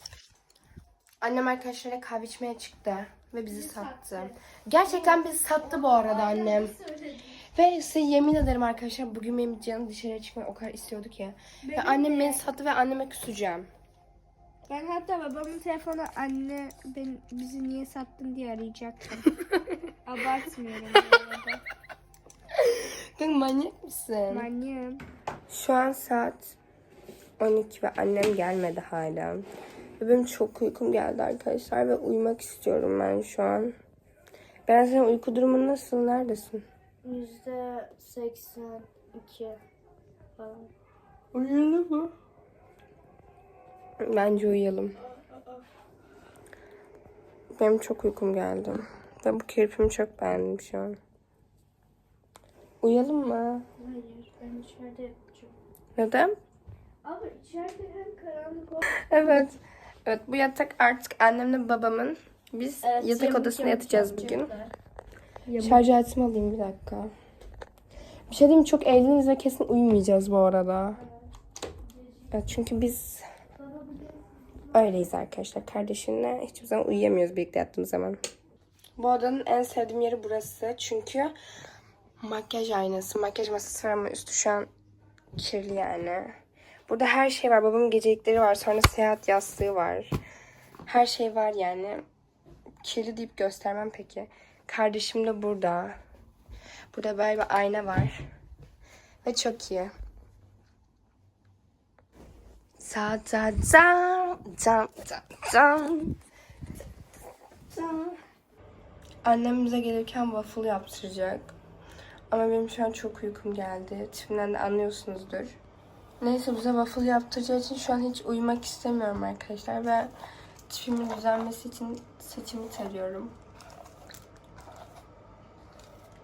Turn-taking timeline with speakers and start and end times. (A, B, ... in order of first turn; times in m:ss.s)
0:01.2-0:06.8 A
0:03.5-0:07.4 B
0:07.5-0:13.7 A
0:11.7-0:12.4 B
0:14.7-0:19.4 B
0:20.0-0:21.6 B
0:22.6-0:24.5 A
0:24.3-0:25.0 B
0:25.5-0:26.6 A
0:27.4-0:29.5 A
0:30.0-0:33.8 A
0:34.7-0:36.6 A
0:37.0-0:39.6 B
0:40.4-0:40.7 B
0:41.3-0:42.1 A
0:44.0-0:45.0 A
0:45.3-0:45.6 B
0:47.6-0:51.0 A
0:52.8-0:53.7 A
0:53.8-0:55.5 B
0:56.0-0:56.4 A
0:57.0-0:59.0 B
0:58.9-1:04.5 A
1:02.8-1:04.7 B
1:05.5-1:05.8 B
1:05.6-1:07.1 A
1:08.3-1:11.0 A
1:12.3-1:13.2 A
1:13.6-1:14.2 B
1:14.7-1:18.2 A
1:19.0-1:21.3 A
1:22.2-1:24.7 A
1:25.4-1:26.4 A
1:26.9-1:30.2 A
1:30.9-1:32.0 A
1:32.8-1:36.0 A
1:36.9-1:38.2 A
1:39.2-1:39.9 A
1:42.8-1:46.2 A
1:47.7-1:48.2 A
1:49.2-1:51.6 A
1:52.3-1:55.6 A
1:56.2-2:00.1 A
2:00.7-2:03.4 A